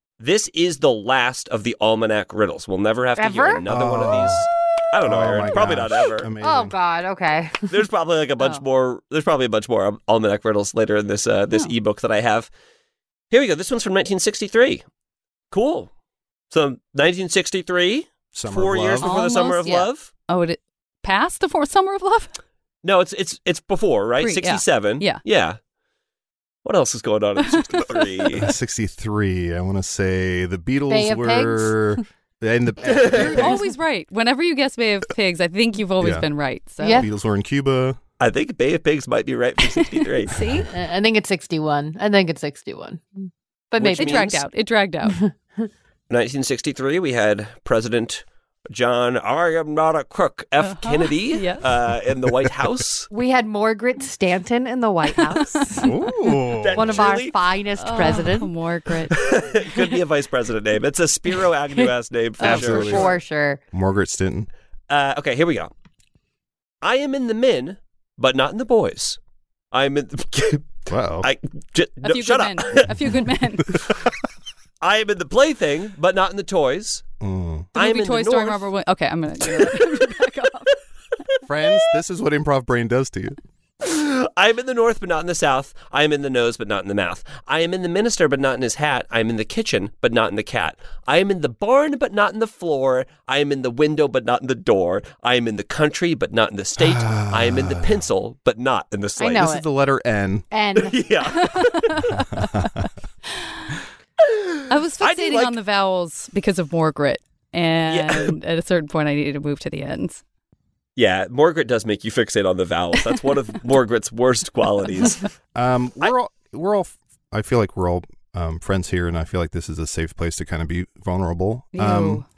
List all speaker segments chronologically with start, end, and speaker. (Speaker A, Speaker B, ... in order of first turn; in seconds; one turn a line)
Speaker A: 0.2-6.3
Speaker B: 3.2-3.6
Speaker C: 3.6-4.5
Speaker C: 5.0-6.7
Speaker B: 6.4-7.7
Speaker A: 7.7-12.5
Speaker A: 13.3-14.8
Speaker A: 15.5-15.9
Speaker A: 16.5-20.1
Speaker C: 18.3-19.1
Speaker D: 19.0-22.4
Speaker A: 22.8-25.6
Speaker D: 24.2-25.2
Speaker A: 26.6-28.5
Speaker D: 27.8-28.1
Speaker C: 28.3-33.6
Speaker B: 30.9-32.0
Speaker A: 32.8-33.5
Speaker D: 33.3-37.1
Speaker C: 36.0-36.3
Speaker B: 36.8-37.1
Speaker C: 36.9-38.0
Speaker A: 38.2-40.3
Speaker D: 40.3-40.7
Speaker B: 40.7-44.4
Speaker A: 43.8-44.4
Speaker D: 44.0-45.2
Speaker B: 45.1-45.6
Speaker A: 46.1-53.1
Speaker D: 50.6-51.6
Speaker B: 53.1-56.0
Speaker C: 55.8-57.1
Speaker A: 56.6-57.4
Speaker B: 56.8-58.5
Speaker D: 57.8-59.2
Speaker A: 59.1-63.2
Speaker C: 62.4-63.2
Speaker B: 62.4-63.6
Speaker C: 63.7-64.5
Speaker A: 64.9-65.7
Speaker A: 66.8-69.2
Speaker A: 69.7-72.9
Speaker C: 70.9-71.3
Speaker D: 72.0-73.8
Speaker A: 74.8-77.0
Speaker C: 77.2-77.7
Speaker A: 77.8-78.7
Speaker D: 77.8-80.7
Speaker C: 81.5-83.4
Speaker A: 83.8-99.5
Speaker C: 96.8-98.0
Speaker B: 99.2-99.6
Speaker C: 99.3-100.5
Speaker B: 100.5-100.9
Speaker A: 100.8-102.0
Speaker D: 101.4-102.9
Speaker C: 102.3-102.8
Speaker D: 103.4-103.7
Speaker A: 104.2-105.5
Speaker D: 104.7-110.2
Speaker A: 107.9-108.3
Speaker A: 111.0-115.2
Speaker C: 115.5-122.2
Speaker D: 121.7-122.2